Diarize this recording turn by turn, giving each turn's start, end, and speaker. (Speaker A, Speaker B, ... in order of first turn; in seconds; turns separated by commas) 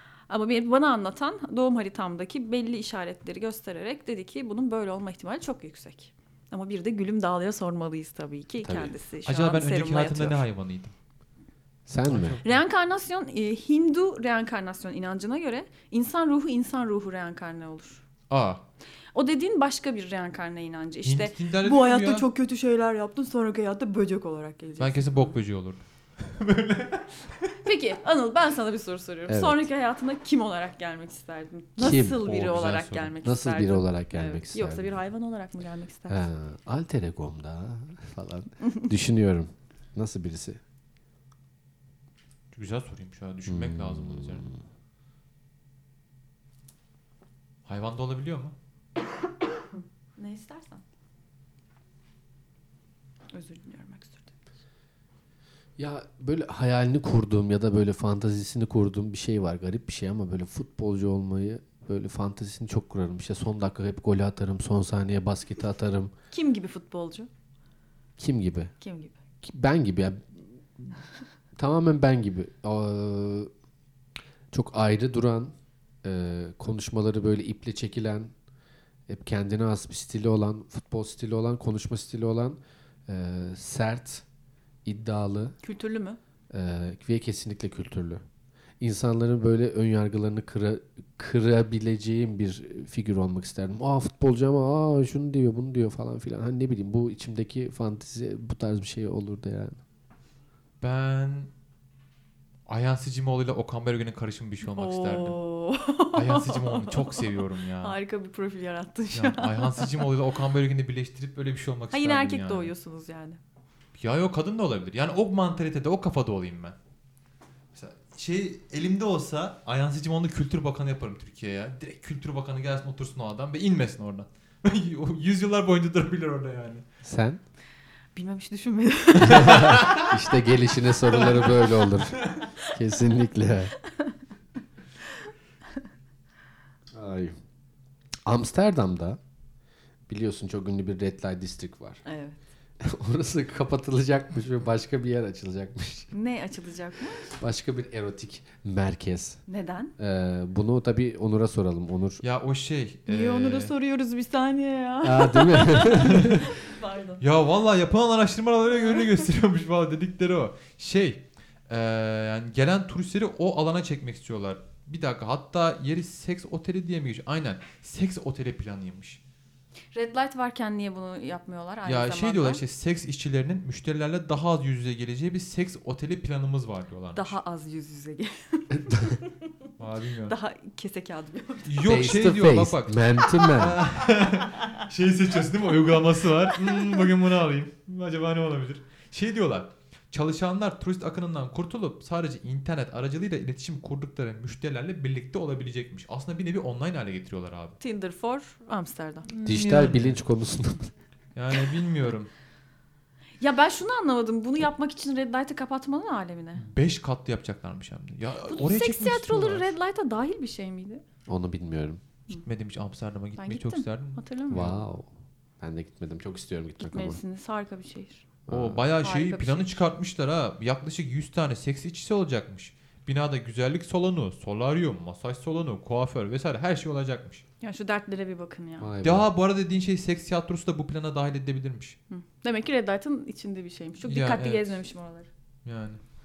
Speaker A: 0.3-10.4, Speaker B: 8.6-8.9, Speaker C: 9.2-10.9, Speaker B: 11.9-12.4, Speaker C: 12.0-12.6, Speaker A: 12.4-18.0, Speaker C: 18.3-18.6, Speaker A: 19.1-25.4, Speaker C: 21.0-22.3, Speaker C: 24.8-27.6, Speaker A: 27.6-36.3, Speaker B: 29.3-29.6, Speaker B: 31.8-32.3, Speaker C: 32.2-33.2, Speaker B: 33.2-35.0, Speaker B: 36.1-40.6, Speaker C: 42.5-44.5, Speaker B: 43.5-44.6, Speaker C: 47.6-48.5, Speaker A: 50.2-50.8, Speaker A: 53.3-54.3, Speaker B: 55.8-66.1, Speaker A: 66.3-67.3, Speaker B: 68.2-68.7, Speaker A: 68.8-69.2, Speaker B: 69.4-71.0, Speaker B: 71.6-73.5, Speaker B: 74.5-78.3, Speaker B: 79.1-84.2, Speaker B: 84.8-85.5, Speaker A: 85.6-86.2, Speaker B: 86.5-88.2, Speaker B: 88.8-99.8, Speaker C: 100.8-101.5, Speaker C: 102.7-105.4, Speaker A: 104.7-110.1, Speaker C: 106.1-108.0, Speaker C: 109.1-112.7, Speaker A: 111.9-113.4, Speaker C: 114.0-116.8, Speaker C: 117.7-126.8, Speaker B: 127.0-127.4, Speaker A: 128.1-130.0, Speaker B: 129.2-133.7, Speaker C: 129.3-130.0, Speaker A: 133.8-134.2, Speaker B: 136.9-137.3, Speaker B: 138.2-139.2, Speaker B: 140.1-142.0, Speaker A: 142.1-142.4, Speaker B: 142.8-146.1, Speaker A: 146.1-147.2, Speaker B: 147.3-149.4, Speaker A: 149.5-149.9, Speaker B: 150.0-152.2, Speaker C: 152.2-153.7, Speaker A: 153.1-157.2, Speaker B: 155.0-156.5, Speaker C: 155.9-156.5, Speaker C: 157.2-169.2, Speaker A: 158.8-159.2, Speaker A: 169.9-172.6, Speaker C: 171.8-177.3, Speaker A: 177.1-179.5, Speaker B: 178.9-179.1, Speaker C: 179.8-180.4, Speaker A: 180.2-182.2, Speaker C: 181.7-197.8, Speaker B: 181.8-183.8, Speaker A: 183.3-183.9, Speaker A: 186.7-187.0, Speaker A: 197.8-199.6, Speaker C: 199.4-200.2, Speaker B: 199.4-200.9, Speaker C: 201.3-202.3, Speaker A: 203.4-206.7, Speaker C: 206.6-209.7, Speaker A: 208.4-211.0, Speaker B: 211.3-212.0, Speaker C: 212.4-214.8, Speaker A: 213.4-214.7, Speaker B: 214.5-215.1, Speaker B: 215.6-217.2, Speaker A: 216.8-218.2, Speaker B: 218.5-218.8, Speaker C: 218.5-227.4, Speaker A: 219.0-219.9, Speaker A: 227.6-228.9, Speaker B: 228.8-229.3, Speaker C: 229.0-232.0, Speaker A: 232.1-235.3, Speaker C: 234.1-234.7, Speaker C: 235.6-236.0